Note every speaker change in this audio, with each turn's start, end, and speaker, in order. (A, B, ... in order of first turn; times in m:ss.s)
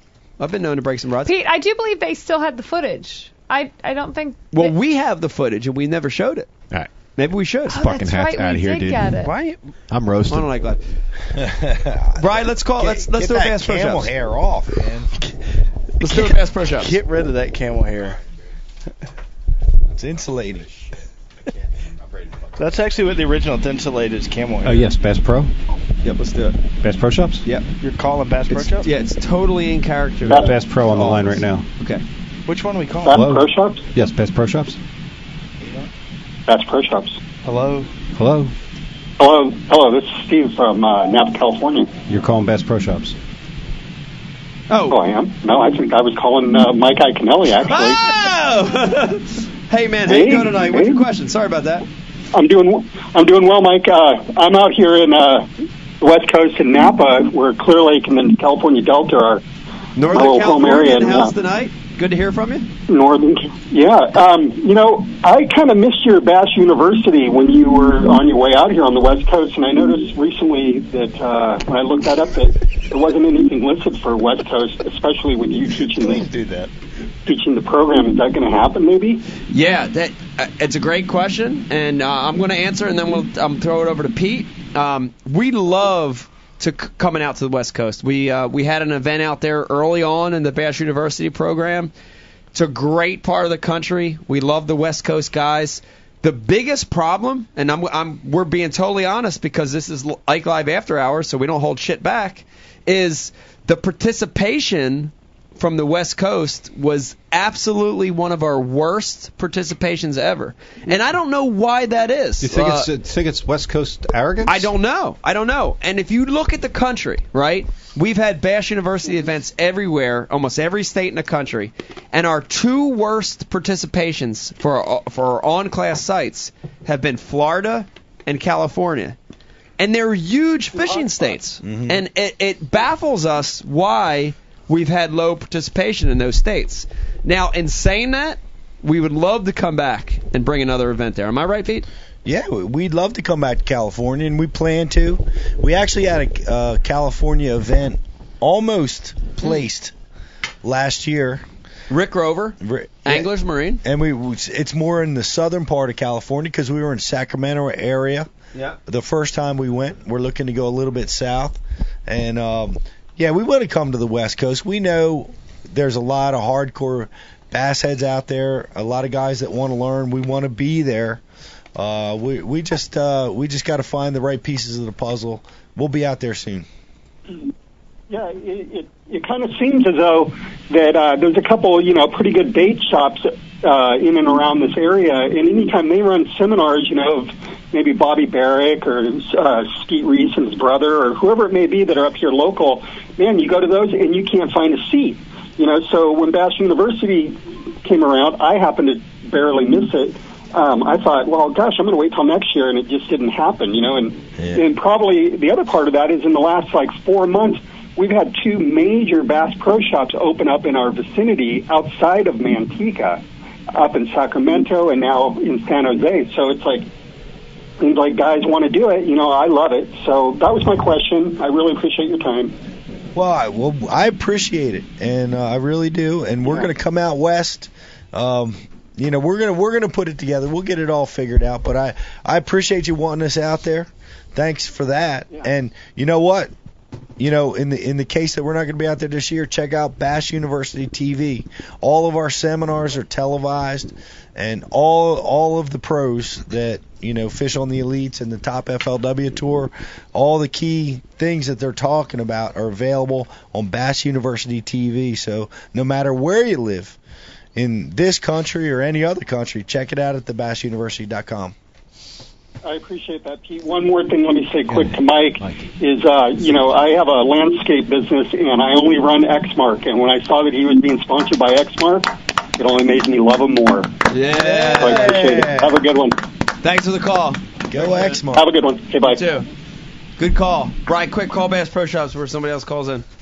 0:00.4-0:01.3 A
0:01.2-0:04.8 B
0:04.5-0:06.5 A
0:07.2-0:07.8 A
0:07.7-0:09.1 C
0:07.7-0:09.3 B
0:09.2-0:09.6 D
0:09.9-0:10.5 C
0:10.3-0:10.8 A
0:11.3-0:15.1 E
0:12.2-0:14.1 A
0:16.0-0:16.9 A
0:16.1-0:18.2 D
0:19.9-0:20.7 E
0:22.6-0:24.9 D
0:24.6-0:25.5 F
0:26.0-0:26.6 A
0:26.8-0:27.4 F
0:27.8-0:28.9 D
0:28.5-0:32.0 A
0:30.3-0:31.6 F
0:32.5-0:33.2 D
0:33.0-0:33.8 G
0:33.1-0:34.8 F
0:36.5-0:37.2 G
0:37.4-0:37.9 D
0:38.2-0:38.5 F
0:39.2-0:41.9 G
0:42.1-0:43.1 F
0:44.7-0:45.0 A
0:44.9-0:48.1 G
0:47.6-0:51.8 A
0:50.0-0:51.0 G
0:52.3-0:55.5 G
0:56.0-0:59.4 G
1:00.0-1:02.7 A
1:00.1-1:01.3 G
1:02.9-1:16.3 G
1:16.0-1:16.7 E
1:17.2-1:19.2 G
1:19.5-1:31.9 A
1:32.5-1:52.9 A
1:52.4-1:54.7 F
1:54.4-2:09.2 A
2:09.8-2:21.9 A
2:11.6-2:12.0 E
2:22.2-2:29.9 E
2:30.6-2:31.4 E
2:31.9-2:33.8 A
2:32.6-2:33.3 E
2:33.8-2:38.3 E
2:38.8-2:51.2 E
2:51.7-2:56.7 E
2:58.1-3:33.2 G
3:33.7-3:36.8 G
3:37.8-3:42.5 G
3:43.1-3:56.5 E
3:46.4-3:46.7 G
3:57.2-4:17.0 E
4:17.5-4:21.5 E
4:22.6-4:33.9 G
4:34.1-4:35.3 A
4:34.3-4:35.7 E
4:34.7-4:36.2 G
4:36.6-4:38.2 A
4:37.7-4:38.5 E
4:38.3-4:39.3 G
4:39.1-4:39.5 A
4:40.2-4:43.0 A